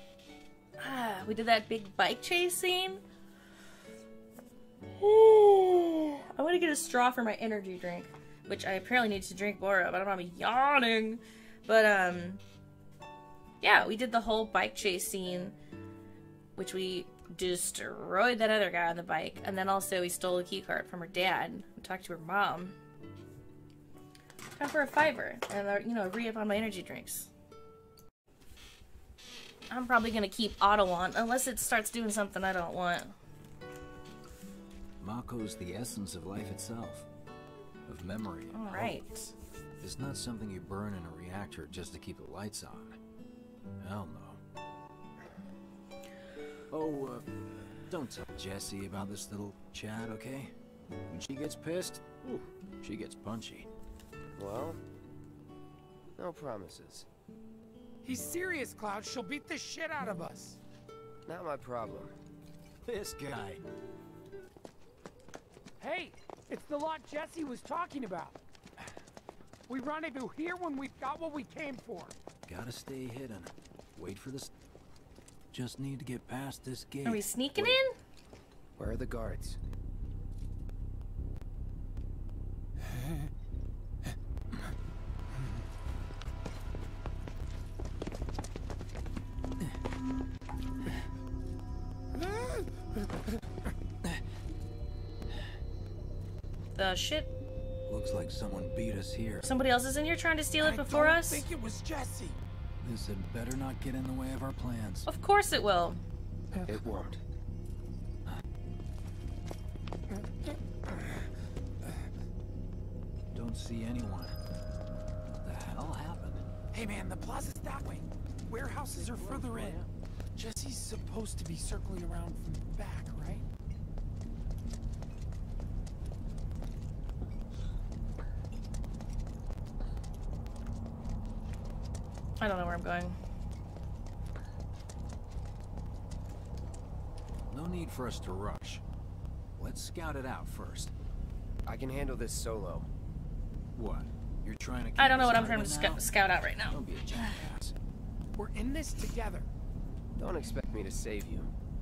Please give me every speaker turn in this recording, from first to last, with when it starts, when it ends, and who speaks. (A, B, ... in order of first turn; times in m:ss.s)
0:00.8-0:03.0 A
0:05.0-0:12.4 A
0:13.6-0:15.6 A
0:16.6-0:22.8 A
0:24.6-0:27.3 A
0:29.7-0:33.1 A
0:35.0-0:37.1 B
0:37.9-0:39.0 B
0:38.5-0:39.3 A
0:39.8-0:43.0 B
0:43.8-0:44.4 B
0:46.7-0:47.3 B
0:47.9-0:50.5 B
0:51.1-0:52.1 B
0:52.8-0:53.7 B
0:54.4-0:54.8 C
0:56.2-0:57.1 C
0:58.0-1:00.6 D
1:01.3-1:02.1 C
1:02.9-1:03.6 B
1:05.8-1:08.4 D
1:09.7-1:12.1 D
1:12.5-1:14.5 B
1:15.5-1:17.8 B
1:17.0-1:17.9 A
1:18.8-1:19.6 C
1:32.2-1:32.7 D
1:36.8-1:37.3 A
1:37.9-1:39.5 B
1:39.4-1:41.4 A
1:40.6-1:42.4 D
1:42.8-1:45.1 B
1:45.1-1:46.0 A
1:46.6-1:47.2 C
1:50.1-1:51.0 D
1:53.3-1:54.4 B
1:55.4-1:56.4 B
1:56.7-1:59.8 D
1:58.8-1:59.9 B
2:00.4-2:03.4 D
2:12.4-2:13.2 A
2:17.5-2:18.8 B
2:19.6-2:20.9 B
2:21.6-2:22.9 C
2:23.8-2:26.0 B
2:25.0-2:27.4 A
2:26.7-2:27.7 B
2:28.4-2:29.5 D
2:30.2-2:31.5 C